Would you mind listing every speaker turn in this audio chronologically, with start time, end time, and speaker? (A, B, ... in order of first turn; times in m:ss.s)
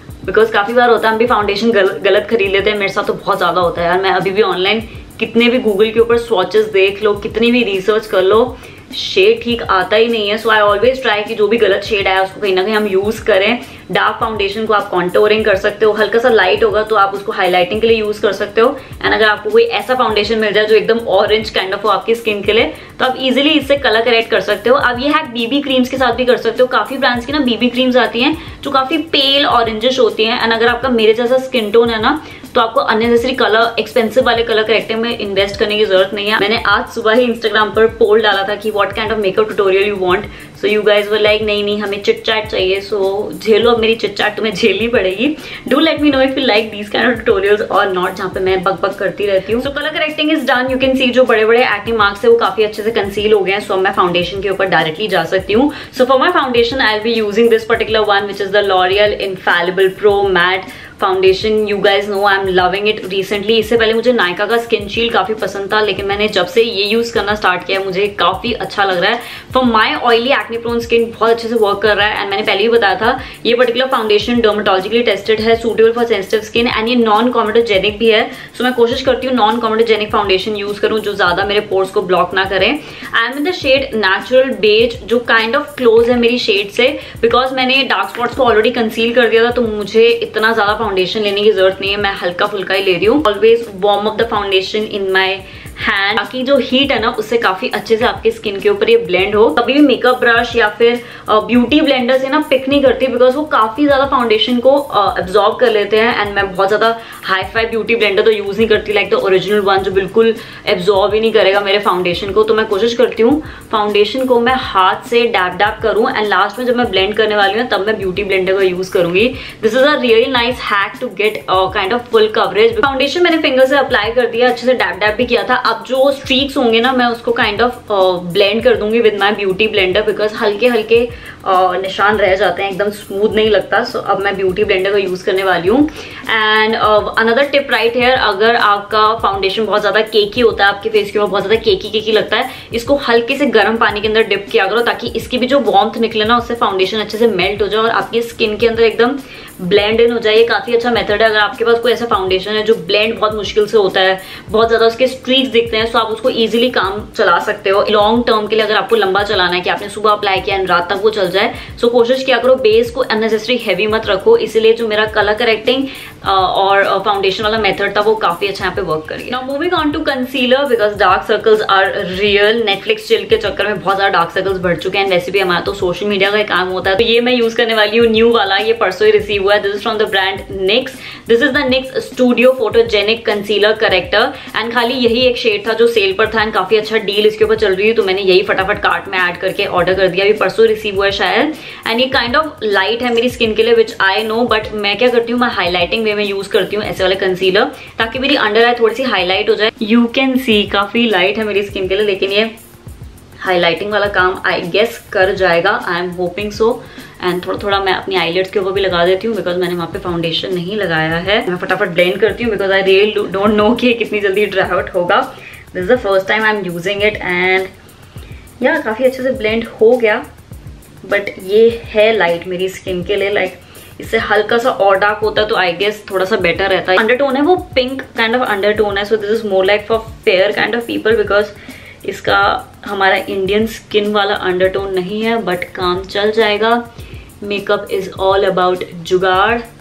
0:00.2-3:22.5 A
3:23.4-3:37.7 A
3:38.6-3:40.2 A
3:41.0-3:56.8 A
3:57.4-3:59.6 A